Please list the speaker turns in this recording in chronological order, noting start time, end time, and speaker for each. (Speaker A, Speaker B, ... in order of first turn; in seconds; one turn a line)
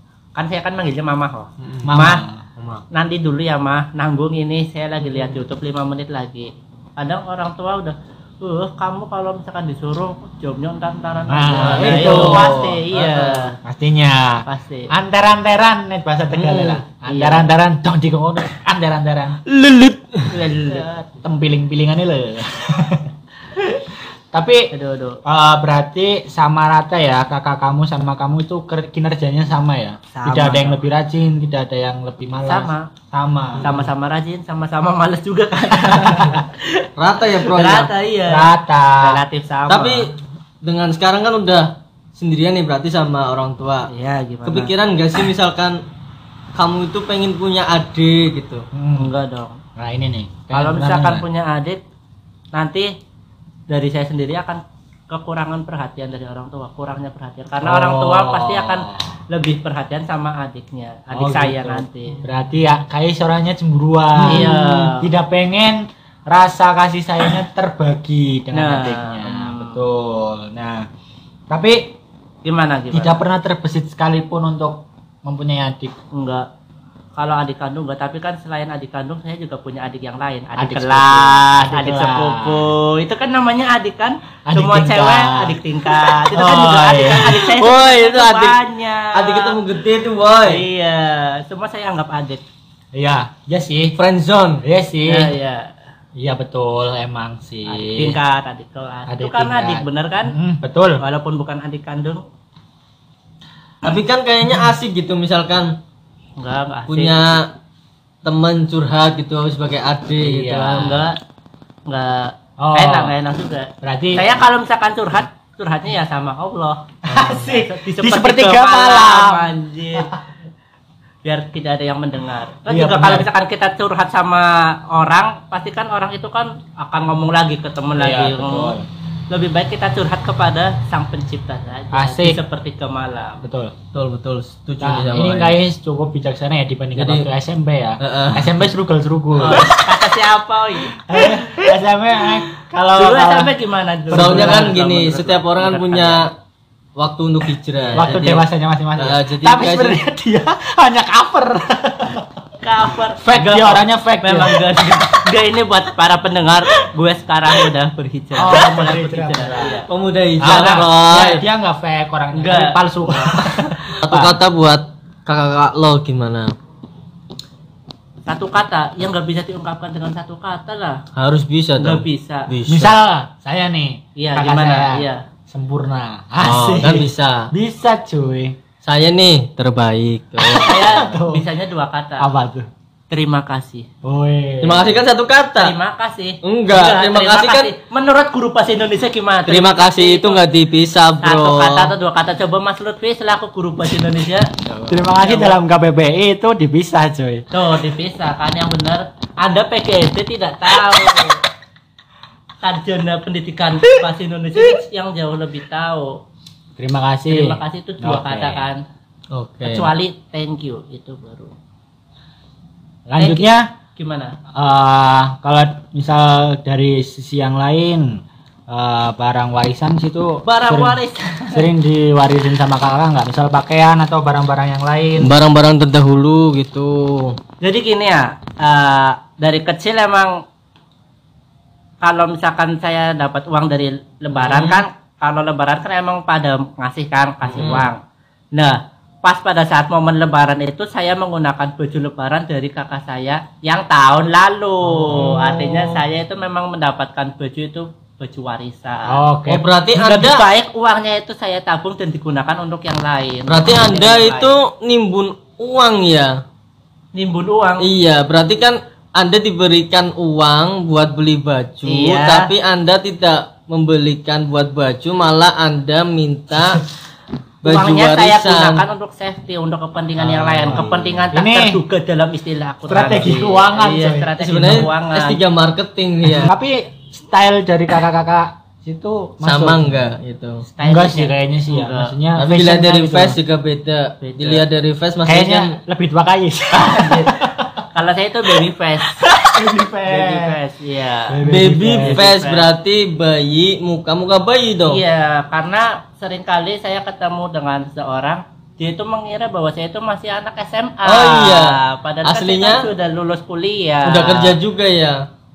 Speaker A: 0.3-2.2
Speaker B: 1.6-2.0
Speaker C: 1.8-2.4
Speaker B: 2.6-2.8
Speaker A: 2.9-13.6
Speaker C: 11.3-12.5
Speaker B: 11.6-13.5
Speaker C: 13.6-19.4
Speaker A: 14.4-14.9
Speaker B: 16.3-16.8
Speaker A: 17.1-17.5
Speaker B: 19.4-20.3
Speaker A: 20.3-20.9
Speaker C: 20.7-23.1
Speaker C: 24.3-24.7
Speaker A: 24.7-25.2
Speaker C: 25.2-33.8
Speaker A: 30.1-30.8
Speaker A: 32.4-32.9
Speaker A: 33.6-36.9
Speaker B: 37.0-37.9
Speaker A: 37.4-40.1
Speaker C: 38.3-39.2
Speaker B: 39.7-40.1
Speaker B: 40.6-43.9
Speaker A: 43.9-44.7
Speaker B: 44.4-45.8
Speaker B: 46.5-48.6
Speaker C: 48.7-49.1
Speaker A: 49.0-49.6
Speaker C: 49.8-51.2
Speaker A: 50.5-51.8
Speaker A: 52.5-52.9
Speaker A: 53.7-62.2
Speaker C: 57.6-59.2
Speaker C: 61.1-70.9
Speaker A: 64.2-65.1
Speaker A: 68.5-69.8
Speaker C: 71.5-72.0
Speaker A: 72.4-73.2
Speaker C: 72.9-75.9
Speaker A: 76.1-76.5
Speaker A: 77.2-89.6
Speaker C: 80.6-82.7
Speaker C: 84.5-87.5
Speaker B: 87.3-90.6
Speaker A: 90.4-92.4
Speaker C: 92.9-94.0
Speaker B: 94.0-94.6
Speaker C: 94.6-95.3
Speaker A: 95.1-95.7
Speaker C: 96.1-98.2
Speaker A: 97.7-100.3
Speaker C: 99.1-101.0
Speaker A: 101.0-102.2
Speaker B: 103.8-105.8
Speaker A: 106.4-107.4
Speaker B: 106.9-107.5
Speaker B: 108.2-111.0
Speaker C: 110.2-111.0
Speaker A: 110.5-111.2
Speaker A: 111.9-120.1
Speaker C: 112.6-113.1
Speaker C: 113.8-114.3
Speaker C: 117.0-120.1
Speaker A: 121.2-128.8
Speaker C: 122.7-123.3
Speaker C: 128.0-128.8
Speaker A: 129.3-133.4
Speaker C: 131.9-132.4
Speaker C: 133.4-133.7
Speaker B: 133.9-135.6
Speaker C: 134.8-139.7
Speaker B: 137.0-137.3
Speaker B: 138.0-138.6
Speaker A: 139.4-141.4
Speaker B: 139.5-139.8
Speaker C: 141.1-143.5
Speaker A: 142.9-146.3
Speaker C: 144.1-144.7
Speaker B: 144.1-146.3
Speaker B: 147.0-148.4
Speaker A: 147.8-148.2
Speaker C: 147.9-152.3
Speaker B: 149.0-150.0
Speaker A: 152.6-159.9
Speaker C: 153.2-155.0
Speaker B: 153.3-153.8
Speaker C: 158.3-159.8
Speaker B: 159.6-161.4
Speaker C: 160.4-164.4
Speaker A: 160.4-160.8
Speaker A: 162.3-163.5
Speaker B: 164.0-166.5
Speaker A: 168.3-171.0
Speaker B: 171.1-172.9
Speaker A: 171.8-172.5
Speaker C: 172.7-178.6
Speaker A: 174.2-175.2
Speaker B: 176.4-177.5
Speaker B: 178.8-181.0
Speaker C: 180.4-181.4
Speaker A: 180.6-182.3
Speaker C: 182.2-182.7
Speaker A: 183.1-183.9
Speaker C: 184.0-185.0
Speaker B: 184.6-185.7
Speaker A: 185.6-190.4
Speaker B: 186.4-187.7
Speaker B: 189.5-191.9
Speaker A: 191.2-194.5
Speaker B: 194.6-194.9
Speaker C: 194.9-197.4
Speaker A: 195.2-195.6
Speaker A: 197.5-201.4
Speaker A: 202.6-206.2
Speaker C: 206.8-208.7
Speaker A: 207.3-208.8
Speaker B: 209.3-209.9
Speaker A: 209.6-211.5
Speaker C: 213.1-213.7
Speaker A: 213.2-214.4
Speaker C: 214.5-221.0
Speaker A: 220.4-221.7
Speaker C: 221.5-225.3
Speaker B: 225.2-227.4
Speaker A: 227.6-230.4
Speaker A: 232.0-238.0
Speaker B: 234.3-234.8
Speaker B: 237.5-237.9
Speaker A: 238.5-249.2
Speaker B: 245.1-246.0
Speaker C: 245.1-245.4
Speaker C: 249.1-249.6
Speaker B: 249.5-250.4
Speaker A: 249.9-254.6
Speaker B: 253.5-256.4
Speaker A: 257.1-257.9
Speaker B: 257.8-266.8
Speaker A: 261.9-262.5
Speaker B: 267.6-268.8
Speaker A: 267.6-275.4
Speaker B: 270.2-271.0
Speaker C: 270.6-271.8
Speaker C: 272.9-274.9
Speaker B: 274.4-276.5
Speaker C: 276.3-280.0
Speaker B: 279.4-280.6
Speaker A: 280.6-282.1
Speaker C: 280.8-283.4
Speaker B: 282.4-285.8
Speaker A: 284.2-284.6
Speaker C: 285.2-287.8
Speaker A: 286.7-287.3
Speaker A: 287.9-289.2
Speaker C: 289.3-290.6
Speaker A: 290.1-291.4
Speaker C: 291.3-292.2
Speaker B: 291.4-295.0
Speaker A: 292.0-292.7
Speaker A: 294.9-304.6
Speaker B: 301.0-302.9
Speaker B: 304.1-305.2